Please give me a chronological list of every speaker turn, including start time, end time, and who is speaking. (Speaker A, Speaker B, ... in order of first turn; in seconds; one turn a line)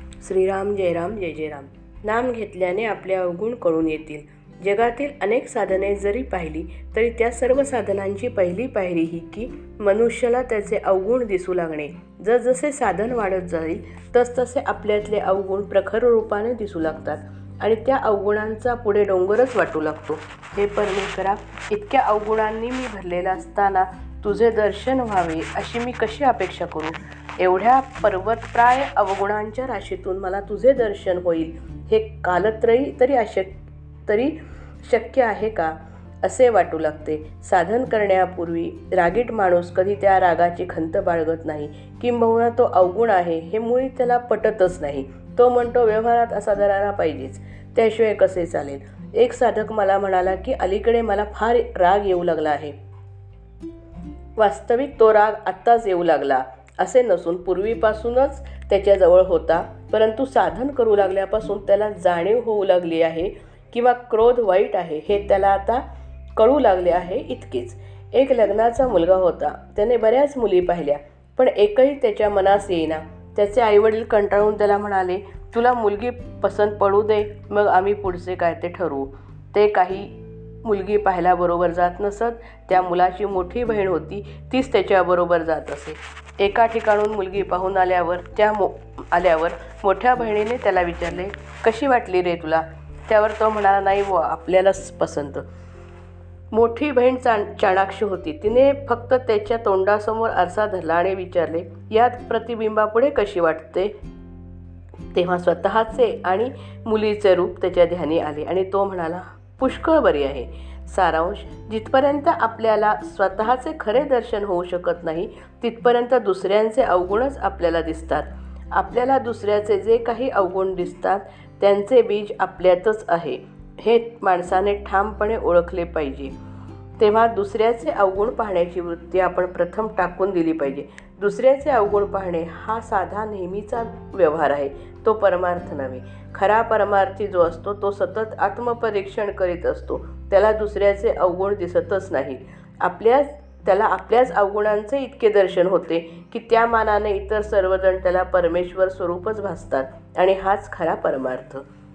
Speaker A: 0.2-52.7
Speaker A: 54.4-65.8
Speaker A: 66.3-95.4
Speaker A: 96.5-103.9
Speaker A: 105.1-126.3
Speaker A: 127.0-151.7